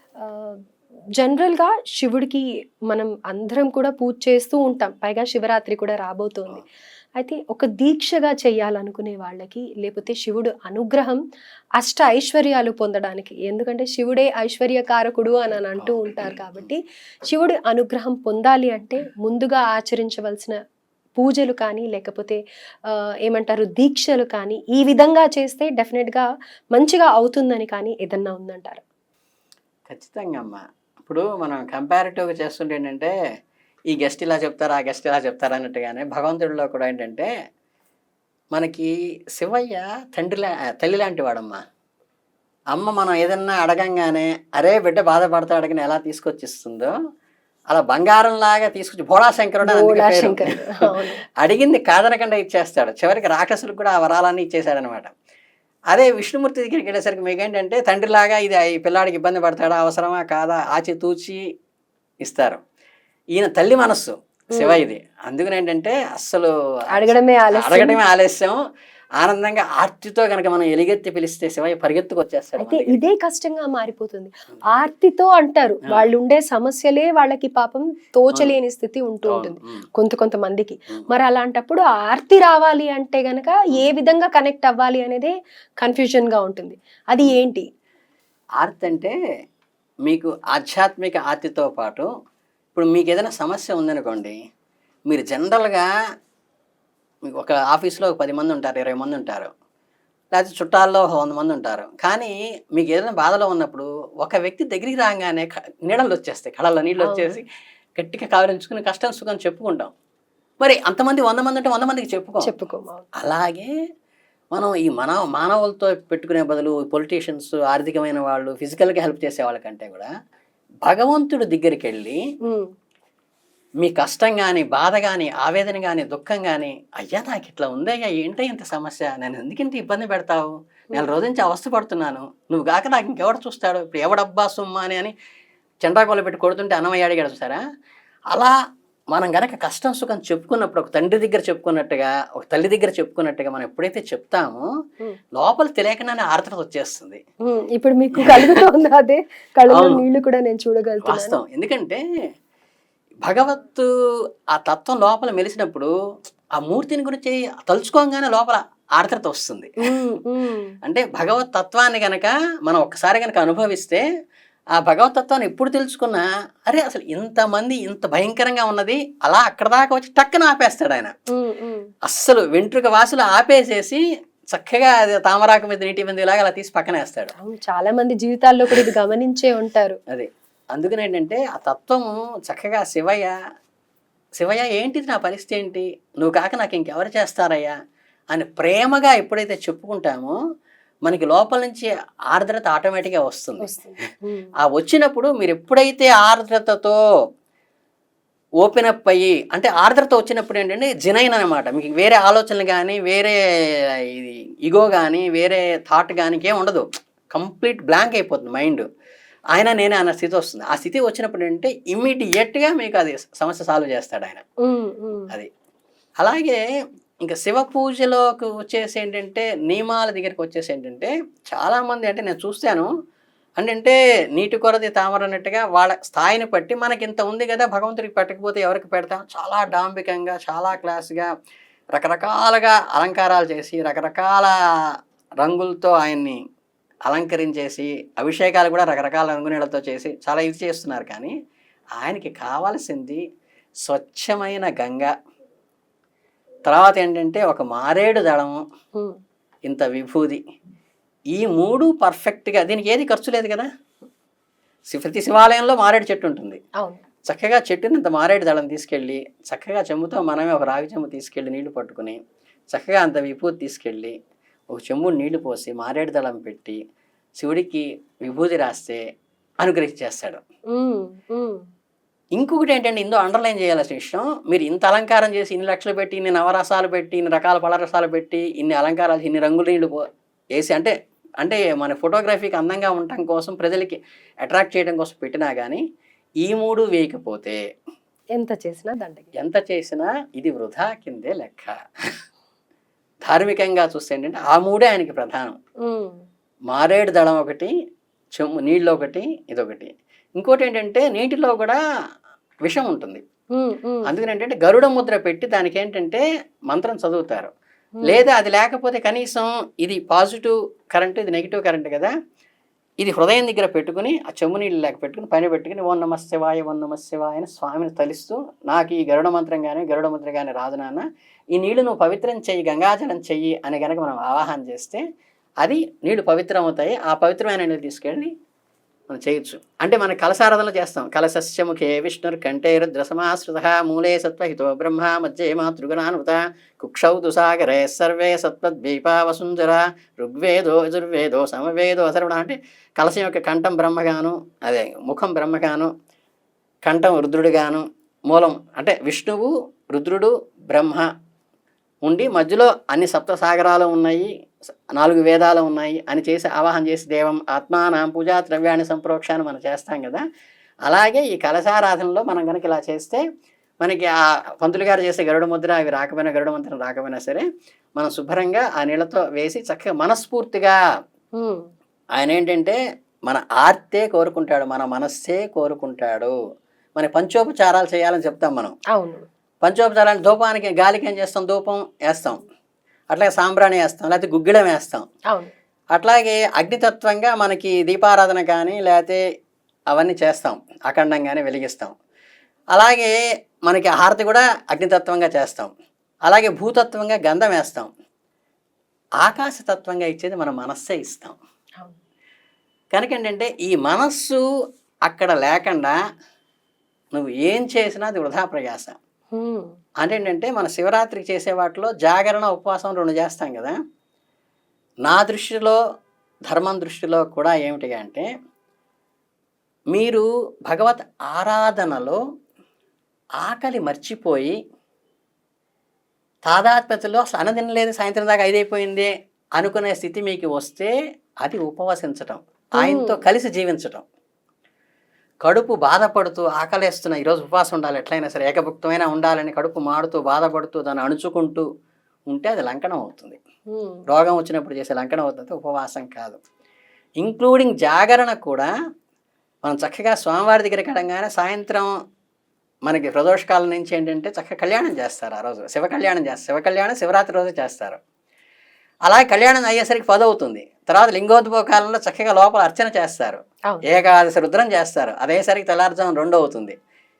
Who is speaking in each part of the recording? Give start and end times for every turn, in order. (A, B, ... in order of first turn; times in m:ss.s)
0:00.2-0:00.6 A
0:01.2-0:06.6 A
0:07.2-0:11.2 A
0:11.8-0:20.6 A
0:15.8-0:16.7 B
0:21.2-0:28.8 A
0:29.9-0:33.1 B
0:33.9-0:37.3 B
0:38.5-0:41.6 B
0:42.7-0:46.9 B
0:47.7-0:50.5 B
0:49.6-0:51.2 A
0:51.4-0:55.1 B
0:55.9-1:01.4 B
1:02.2-1:02.6 B
1:03.3-1:08.6 B
1:04.5-1:04.8 A
1:06.9-1:08.0 A
1:09.2-1:13.0 B
1:12.6-1:27.6 A
1:19.3-1:19.8 B
1:28.6-1:29.1 B
1:30.0-1:32.1 B
1:32.7-1:34.3 B
1:35.1-1:35.9 B
1:37.2-1:39.5 B
1:40.3-1:47.4 B
1:47.0-1:47.3 A
1:48.0-1:49.9 B
1:50.6-1:52.5 B
1:52.4-1:53.1 A
1:53.2-1:53.7 B
1:54.5-2:00.1 B
2:00.8-2:02.2 B
2:03.8-2:15.1 B
2:15.8-2:17.6 B
2:19.1-2:24.7 B
2:25.4-2:27.2 B
2:27.4-2:31.4 A
2:28.2-2:28.5 B
2:29.7-2:30.0 B
2:31.0-2:32.0 B
2:33.2-2:33.9 B
2:34.5-2:35.9 B
2:36.6-2:39.9 B
2:39.8-2:40.7 A
2:40.8-2:44.0 B
2:44.8-2:51.1 B
2:51.3-2:51.9 A
2:52.0-2:54.0 B
2:54.5-2:57.3 B
2:57.4-3:00.0 A
3:00.1-3:03.3 B
3:04.4-3:07.7 B
3:08.3-3:10.4 B
3:11.0-3:13.7 B
3:13.6-3:14.5 A
3:14.6-3:17.0 B
3:18.6-3:23.4 B
3:24.0-3:28.8 B
3:29.5-3:34.4 B
3:34.6-3:35.3 A
3:36.2-3:36.6 B
3:37.2-3:42.9 B
3:43.6-3:51.3 B
3:51.9-3:54.5 B
3:55.4-3:56.4 B
3:57.1-4:01.3 B
4:02.0-4:03.2 B
4:03.8-4:05.1 B
4:06.7-4:08.6 B
4:09.7-4:10.4 B
4:11.3-4:13.7 B
4:14.9-4:16.6 B
4:17.2-4:22.2 B
4:22.7-4:24.1 B
4:24.7-4:26.8 B
4:27.4-4:29.0 B
4:29.6-4:30.4 B
4:30.7-4:31.6 A
4:32.4-4:40.0 B
4:40.5-4:45.8 B
4:46.4-4:47.6 B
4:48.4-4:49.3 A
4:49.4-4:51.8 B
4:53.2-4:55.5 B
4:55.8-4:56.2 A
4:56.7-4:57.7 B
4:58.3-5:01.8 B
5:02.6-5:03.2 B
5:03.6-5:04.1 A
5:04.1-5:07.5 B
5:08.0-5:08.3 A
5:08.0-5:12.1 B
5:13.0-5:25.0 B
5:25.6-5:28.3 B
5:29.1-5:45.9 B
5:46.8-5:51.0 B
5:52.0-5:54.3 B
5:55.0-6:00.2 B
6:00.9-6:03.2 B
6:03.8-6:07.4 B
6:08.0-6:10.8 B
6:12.2-6:16.3 B
6:17.0-6:18.7 B
6:18.9-6:19.2 A
6:19.6-6:22.4 B
6:23.1-6:25.0 B
6:25.9-6:29.2 B
6:29.9-6:31.9 B
6:32.7-6:33.1 B
6:33.6-6:35.7 B
6:36.3-6:37.9 B
6:39.2-6:41.4 B
6:42.9-6:44.4 B
6:45.1-6:45.9 B
6:47.1-6:49.0 B
6:49.3-6:49.7 A
6:50.0-6:53.8 B
6:55.0-6:55.8 B
6:56.5-6:58.3 B
6:59.9-7:02.2 B
7:03.4-7:04.6 B
7:06.5-7:10.9 B
7:11.4-7:14.0 B
7:12.8-7:13.2 A
7:15.4-7:21.6 B
7:22.3-7:23.4 B
7:23.7-7:24.0 A
7:24.1-7:26.4 B
7:27.2-7:28.7 B
7:29.6-7:31.9 B
7:32.8-7:38.0 B
7:39.1-7:46.7 B